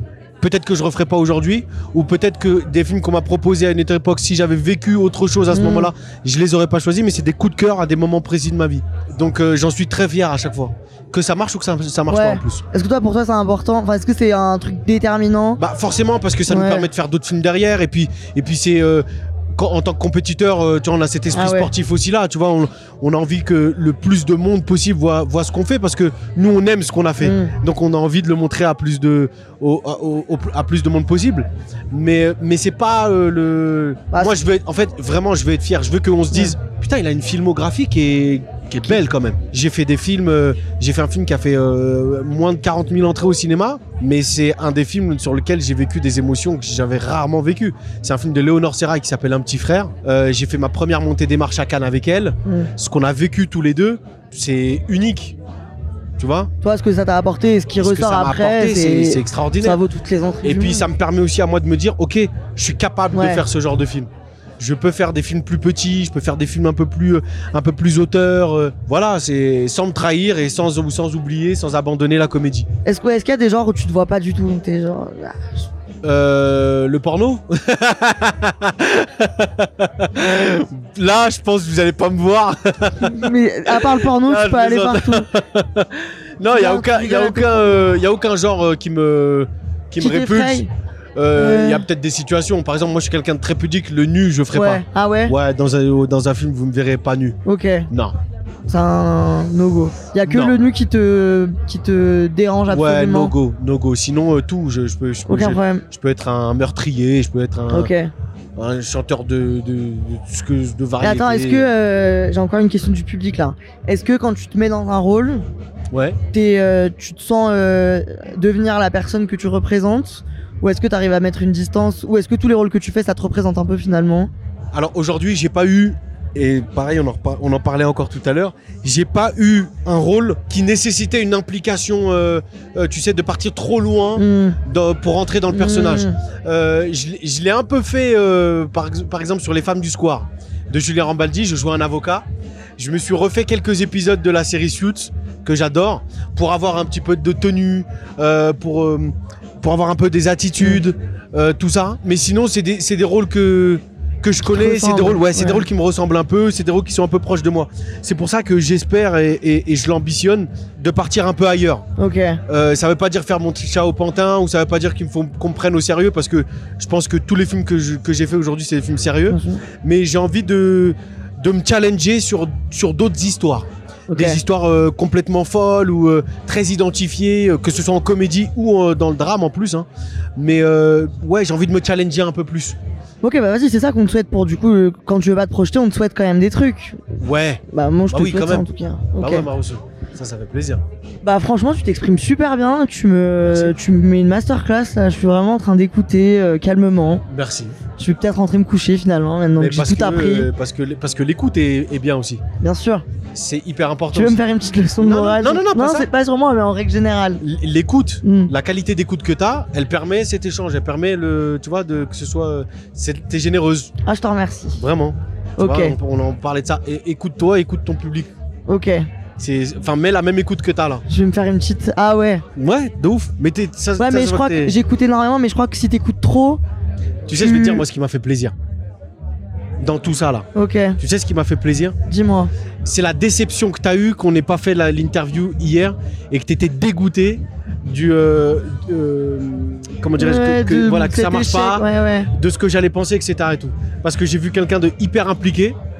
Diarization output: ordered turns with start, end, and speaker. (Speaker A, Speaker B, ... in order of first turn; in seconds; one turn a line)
Speaker A: 0.4-12.6
Speaker B: 5.5-5.9
Speaker B: 12.1-15.6
Speaker A: 15.6-55.4
Speaker B: 16.5-16.9
Speaker B: 21.3-21.7
Speaker B: 27.2-27.5
Speaker B: 34.1-34.4
Speaker A: 56.2-56.5
Speaker B: 56.6-60.9
Speaker A: 57.8-59.8
Speaker A: 60.4-72.7
Speaker B: 63.1-63.4
Speaker B: 72.8-75.7
Speaker A: 76.0-97.4
Speaker B: 83.0-85.3
Speaker B: 86.5-87.9
Speaker B: 90.0-90.7
Speaker B: 91.3-91.8
Speaker B: 94.5-95.3
Speaker B: 97.4-97.9
Speaker A: 97.9-98.2
Speaker B: 98.7-103.3
Speaker A: 100.2-100.5
Speaker A: 102.7-107.9
Speaker B: 105.3-105.8
Speaker B: 107.7-108.1
Speaker A: 108.5-111.7
Speaker B: 111.0-115.4
Speaker A: 115.9-116.2
Speaker B: 116.3-124.3
Speaker A: 124.7-142.2
Speaker B: 134.2-134.6
Speaker B: 135.5-136.2
Speaker A: 142.8-161.8
Speaker B: 154.4-155.7
Speaker B: 162.0-162.4
Speaker A: 162.5-182.8
Speaker B: 169.3-169.6
Speaker B: 174.1-174.4
Speaker B: 183.2-187.0
Speaker A: 187.2-190.8
Speaker B: 187.7-189.5
Speaker B: 191.2-197.2
Speaker A: 193.4-193.7
Speaker A: 197.3-197.8
Speaker B: 198.0-200.5
Speaker A: 199.6-202.4
Speaker B: 202.6-203.0
Speaker A: 203.3-204.4
Speaker B: 204.1-207.4
Speaker A: 205.0-206.1
Speaker A: 207.4-213.9
Speaker B: 208.2-208.5
Speaker B: 214.0-214.8
Speaker A: 214.8-218.3
Speaker B: 215.6-215.9
Speaker B: 218.7-219.1
Speaker A: 219.4-221.0
Speaker B: 221.1-222.4
Speaker A: 222.6-224.7
Speaker B: 224.0-226.6
Speaker A: 227.3-228.5
Speaker B: 227.4-227.8
Speaker A: 229.8-231.9
Speaker B: 230.5-231.0
Speaker B: 232.1-232.5
Speaker A: 232.8-245.8
Speaker B: 240.2-242.3